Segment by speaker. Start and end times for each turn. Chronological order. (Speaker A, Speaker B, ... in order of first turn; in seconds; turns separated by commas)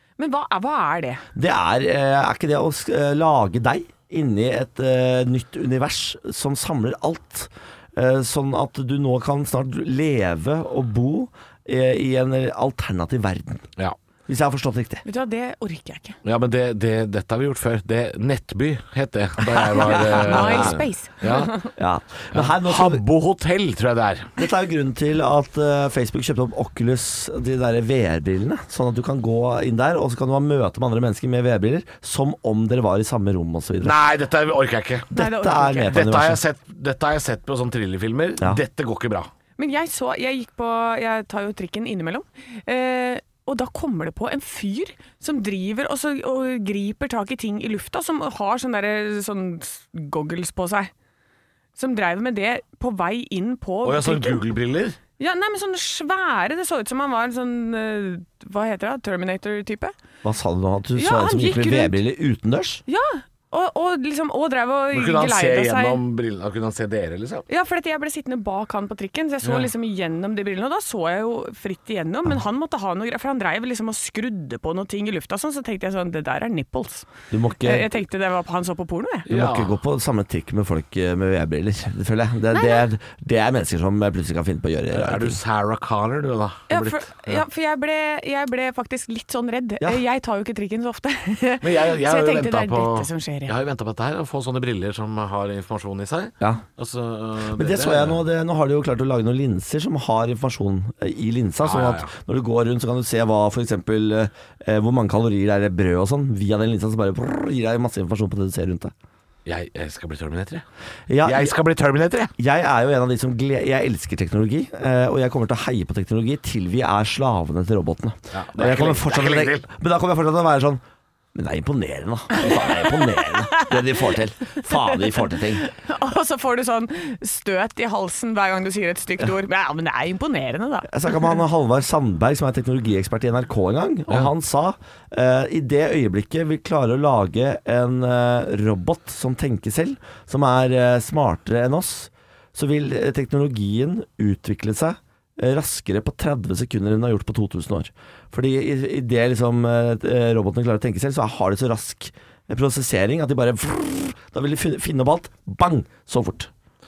Speaker A: 0.2-1.2, Speaker B: 1.3-13.7, Speaker B: 14.3-15.0, Speaker A: 15.0-16.2, Speaker C: 16.2-21.6, Speaker B: 19.8-20.8, Speaker A: 19.8-21.7, Speaker B: 21.7-23.0, Speaker C: 22.3-24.3, Speaker B: 24.4-34.0, Speaker C: 33.8-35.1, Speaker B: 35.1-36.4, Speaker A: 35.1-36.0, Speaker C: 35.8-39.3, Speaker A: 39.6-50.9, Speaker A: 51.8-54.5, Speaker C: 53.8-55.0, Speaker A: 55.2-59.9, Speaker B: 60.2-62.8, Speaker A: 61.0-62.0, Speaker A: 62.9-66.0, Speaker C: 64.9-67.5, Speaker A: 67.5-79.3, Speaker C: 69.4-69.7, Speaker B: 77.3-77.9, Speaker C: 79.3-79.7, Speaker B: 79.3-85.4, Speaker A: 82.5-82.8, Speaker C: 84.9-87.4, Speaker A: 86.7-93.5, Speaker C: 91.6-98.2, Speaker B: 97.5-108.9, Speaker C: 101.6-102.1, Speaker C: 109.4-110.6, Speaker B: 111.1-111.6, Speaker C: 111.2-112.3, Speaker B: 112.4-120.8, Speaker C: 118.3-119.7, Speaker B: 121.3-125.6, Speaker A: 122.3-124.1, Speaker A: 124.7-131.4, Speaker B: 130.8-156.5